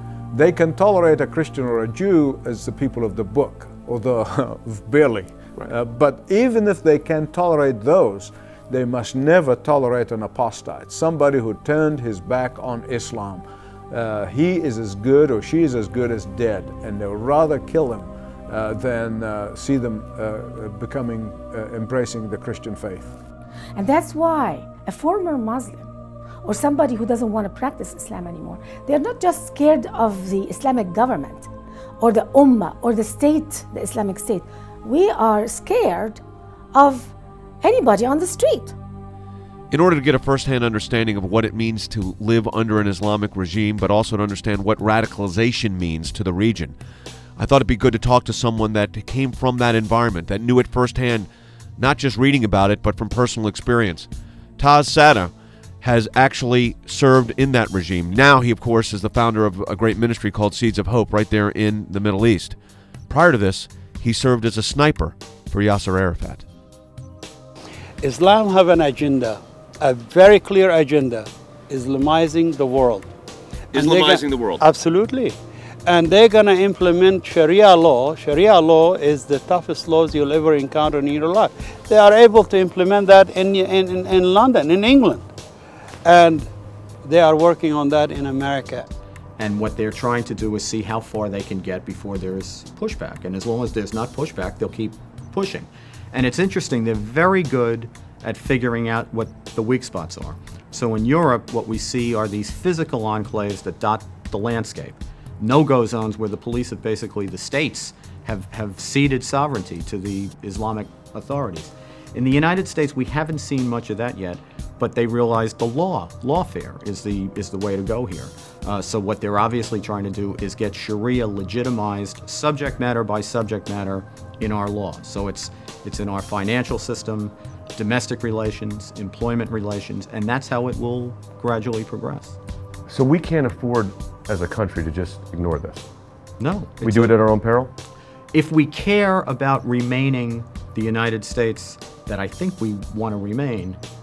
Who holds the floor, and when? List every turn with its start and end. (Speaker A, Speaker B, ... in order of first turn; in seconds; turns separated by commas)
Speaker A: 0.3-23.1, Speaker B: 23.8-25.9, Speaker B: 26.4-31.5, Speaker B: 32.0-36.2, Speaker B: 36.7-38.8, Speaker C: 39.7-46.8, Speaker C: 47.4-62.5, Speaker C: 63.1-66.4, Speaker D: 68.0-73.1, Speaker E: 73.7-74.6, Speaker D: 73.7-85.2, Speaker D: 86.0-86.5, Speaker D: 87.0-88.9, Speaker F: 89.4-132.4, Speaker E: 132.9-135.9, Speaker F: 136.4-137.2, Speaker E: 136.8-137.7, Speaker F: 138.3-143.8